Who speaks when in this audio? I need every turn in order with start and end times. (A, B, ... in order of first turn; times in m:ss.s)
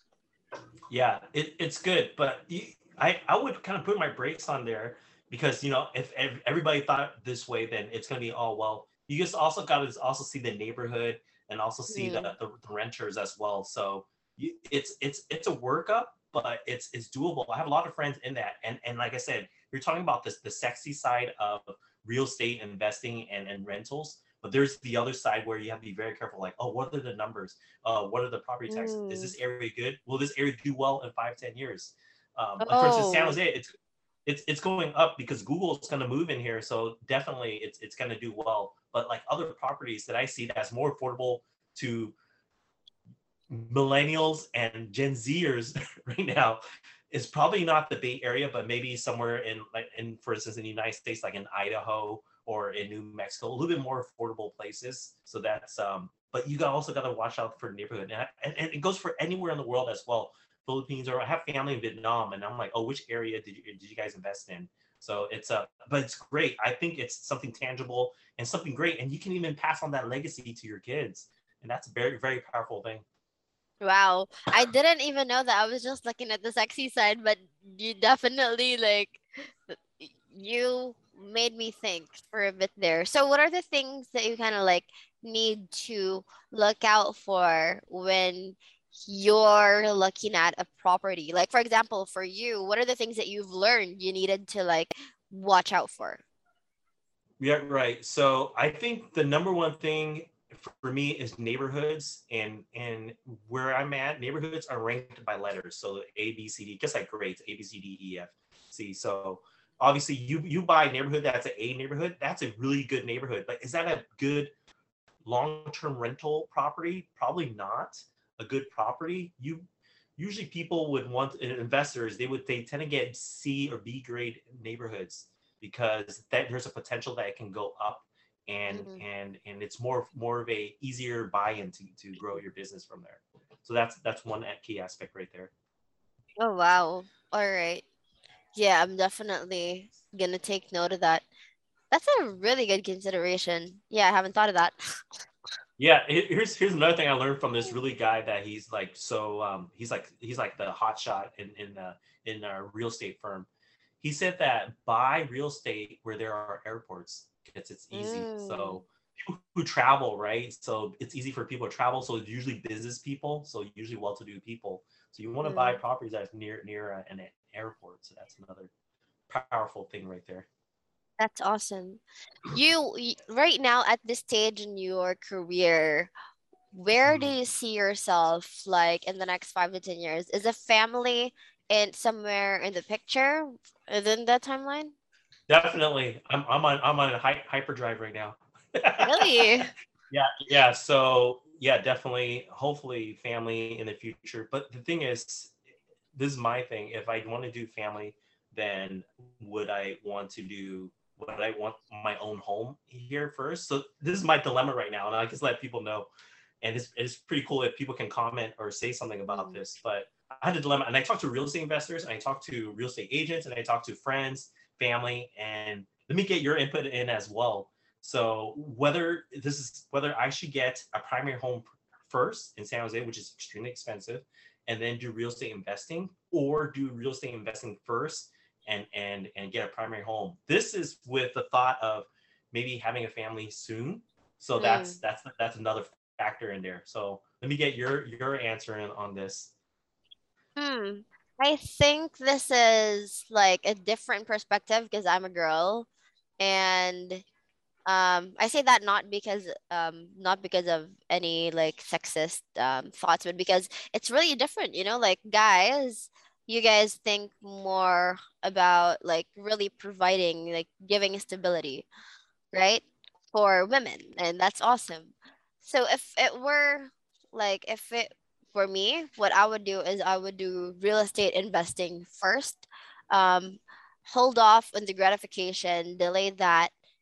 0:00.9-0:33.7 A
0:11.9-0:12.3 B
0:28.7-0:29.3 B
0:32.6-0:33.4 B
0:34.2-0:42.1 A
0:43.5-1:13.0 A
1:13.8-1:36.2 B
1:37.4-1:54.5 A
1:55.2-1:59.6 A
2:00.2-2:15.5 A
2:08.7-2:09.0 B
2:16.4-2:17.8 B
2:18.5-2:21.2 B
2:21.9-2:24.7 B
2:25.8-2:33.5 A
2:34.0-2:48.7 A
2:37.9-2:38.8 B
2:45.4-2:45.8 B
2:49.3-2:50.4 A
2:51.2-2:52.0 B
2:52.5-2:56.1 B
2:56.7-3:04.9 B
2:57.0-2:57.3 A
3:05.5-3:09.5 A
3:09.0-3:09.7 B
3:10.1-3:15.5 A
3:16.1-3:26.1 A
3:26.6-3:59.5 A
3:29.3-3:29.6 B
3:54.6-3:55.0 B
4:00.6-4:05.9 B
4:06.4-4:07.2 B
4:07.8-4:21.8 B
4:22.5-4:36.7 B